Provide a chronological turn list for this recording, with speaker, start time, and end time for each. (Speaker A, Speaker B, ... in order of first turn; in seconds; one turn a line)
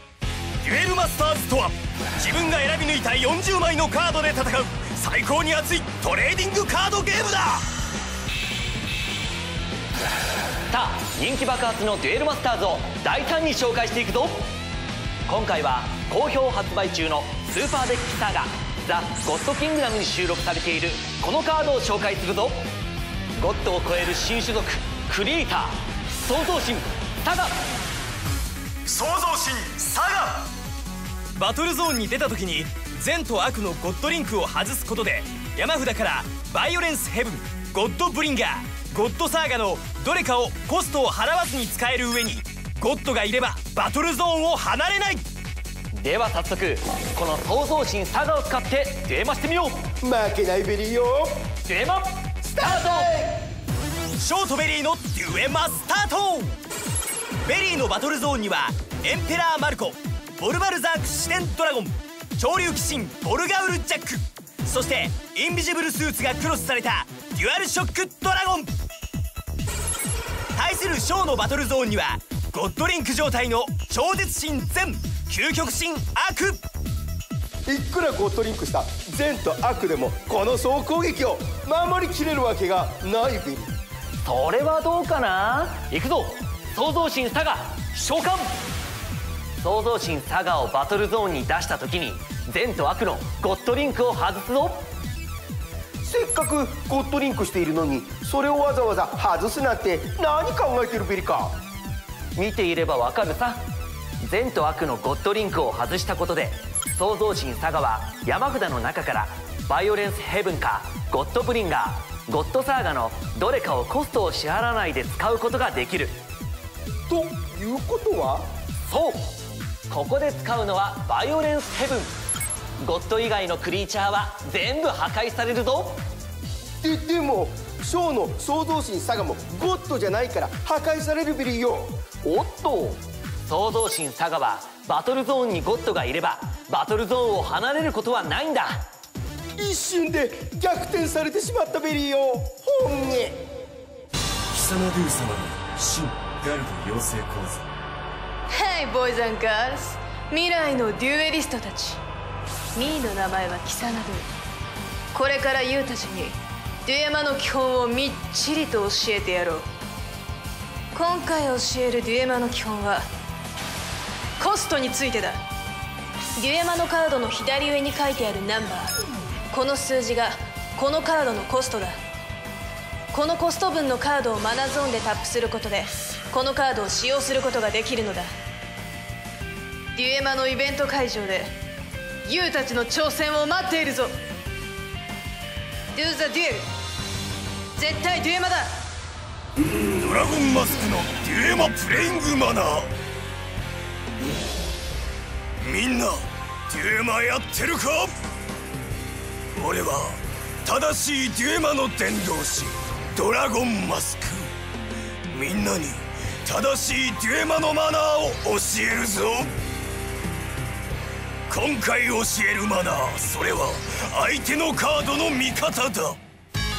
Speaker A: 0.6-7.7
Speaker B: 10.7-14.5
Speaker B: 15.3-22.7
Speaker B: 23.4-27.6
Speaker A: 28.9-30.5
Speaker A: 31.4-45.3
Speaker B: 45.9-49.9
Speaker C: 50.0-51.4
Speaker B: 51.7-53.1
Speaker C: 52.4-53.5
Speaker A: 54.2-56.6
Speaker A: 57.5-68.7
Speaker A: 70.6-76.6
Speaker C: 77.7-83.7
Speaker B: 84.2-88.5
Speaker B: 89.6-94.9
Speaker C: 96.0-101.6
Speaker B: 102.3-103.6
Speaker B: 104.2-116.2
Speaker C: 117.1-118.5
Speaker B: 118.9-119.2
Speaker B: 119.9-122.1
Speaker B: 122.8-126.0
Speaker C: 126.8-131.9
Speaker B: 132.2-138.8
Speaker C: 139.5-143.4
Speaker D: 144.5-147.6
Speaker E: 148.5-152.0
Speaker E: 152.7-154.3
Speaker E: 155.1-159.7
Speaker E: 160.9-163.1
Speaker E: 164.4-165.4
Speaker E: 166.4-169.0
Speaker E: 169.5-172.0
Speaker E: 173.1-178.3
Speaker E: 179.9-181.6
Speaker E: 182.2-184.2
Speaker E: 185.9-186.7
Speaker E: 187.8-188.8
Speaker A: 189.7-192.9
Speaker A: 195.6-198.2
Speaker A: 199.5-204.5
Speaker A: 205.3-209.6
Speaker A: 211.5-216.2